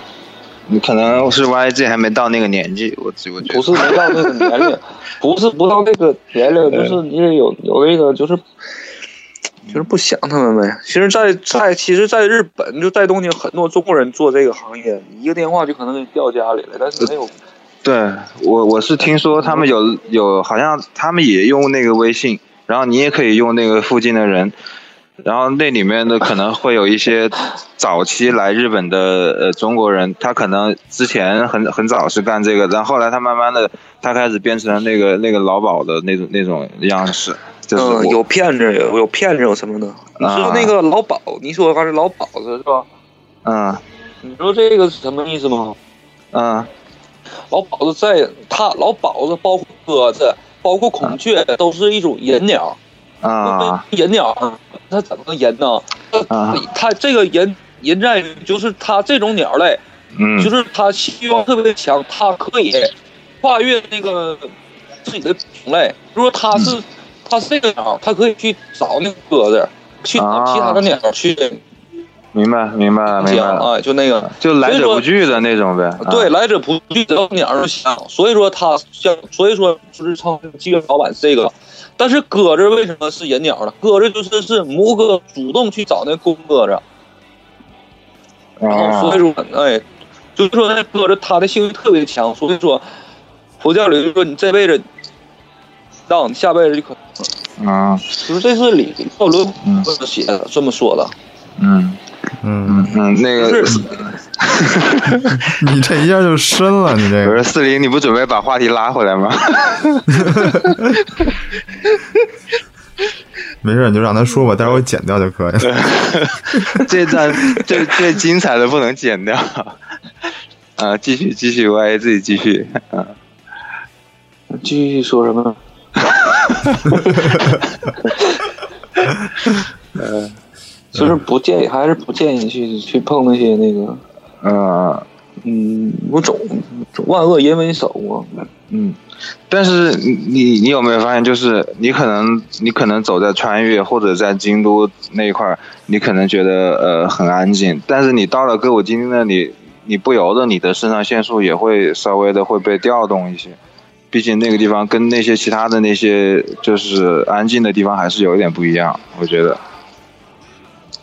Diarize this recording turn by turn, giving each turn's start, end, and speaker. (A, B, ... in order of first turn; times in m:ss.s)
0:00.7-0:04.6 A
0:03.4-0:08.4 B
0:06.7-0:07.0 A
0:09.7-0:17.3 B
0:17.8-0:24.5 A
0:19.3-0:19.7 B
0:25.2-0:38.2 A
0:37.7-0:42.9 B
0:40.2-0:40.7 A
0:43.4-0:43.8 A
0:44.2-0:45.8 B
0:46.3-0:46.7 A
0:47.5-0:52.8 B
0:53.2-0:53.8 A
0:53.4-0:59.8 B
0:56.3-0:56.6 A
1:00.1-1:00.5 A
1:00.4-1:04.5 B
1:05.0-1:11.6 B
1:10.1-1:10.8 A
1:12.3-1:13.7 A
1:13.1-1:15.4 B
1:14.3-1:16.3 A
1:16.0-1:26.8 B
1:28.6-1:29.2 A
1:28.7-1:29.8 B
1:30.4-1:32.8 B
1:33.6-1:34.8 B
1:36.1-1:37.0 B
1:37.6-1:38.1 A
1:38.2-1:41.1 B
1:41.6-1:42.0 A
1:42.4-1:43.0 C
1:42.6-1:45.5 A
1:43.4-1:44.0 B
1:45.2-1:47.4 C
1:47.2-1:50.9 A
1:50.1-1:50.8 C
1:53.6-1:55.8 C
1:55.6-1:59.8 A
2:00.8-2:03.1 A
2:04.5-2:05.6 B
2:06.0-2:07.6 A
2:08.0-2:08.4 B
2:09.9-2:10.3 A
2:10.9-2:14.0 B
2:14.4-2:15.0 A
2:15.4-2:18.5 B
2:18.7-2:19.0 A
2:19.5-2:33.6 A
2:34.1-2:39.6 A